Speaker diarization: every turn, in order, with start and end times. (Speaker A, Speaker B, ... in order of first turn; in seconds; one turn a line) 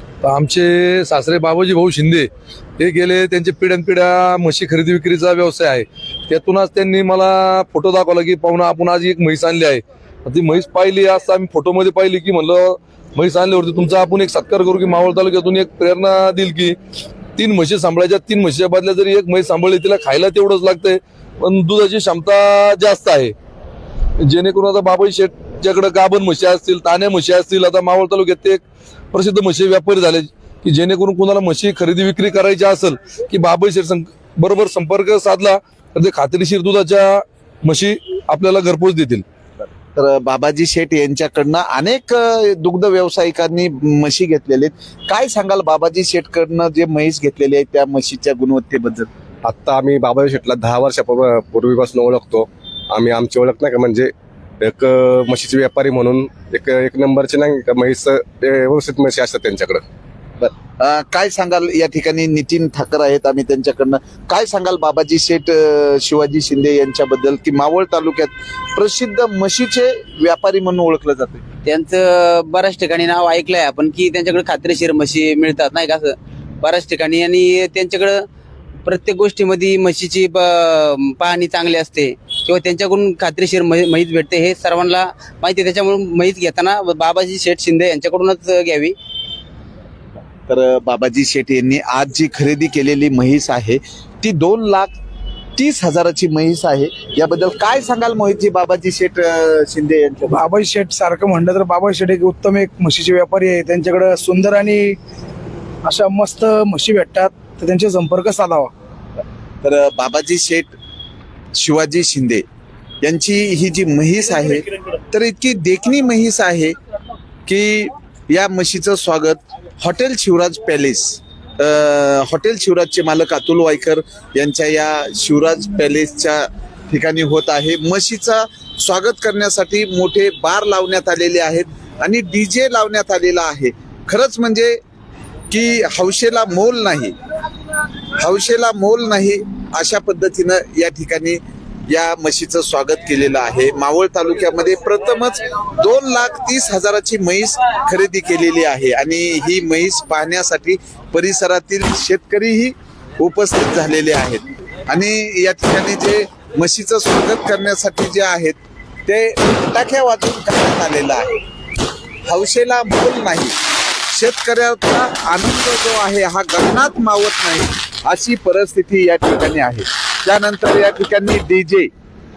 Speaker A: 0.2-16.8
Speaker A: 17.4-23.3
Speaker A: 24.2-39.2
Speaker B: 40.0-49.1
Speaker C: 49.5-59.8
Speaker B: 60.4-71.4
Speaker D: 71.7-78.3
Speaker D: 78.8-89.0
Speaker B: 90.5-94.9
Speaker B: 95.6-100.5
Speaker E: 100.3-105.0
Speaker E: 105.8-108.7
Speaker B: 109.6-110.7
Speaker B: 111.5-112.4
Speaker B: 113.0-116.8
Speaker B: 117.5-134.8
Speaker B: 135.5-137.2
Speaker B: 138.2-161.3
Speaker B: 162.3-163.6
Speaker B: 164.1-171.9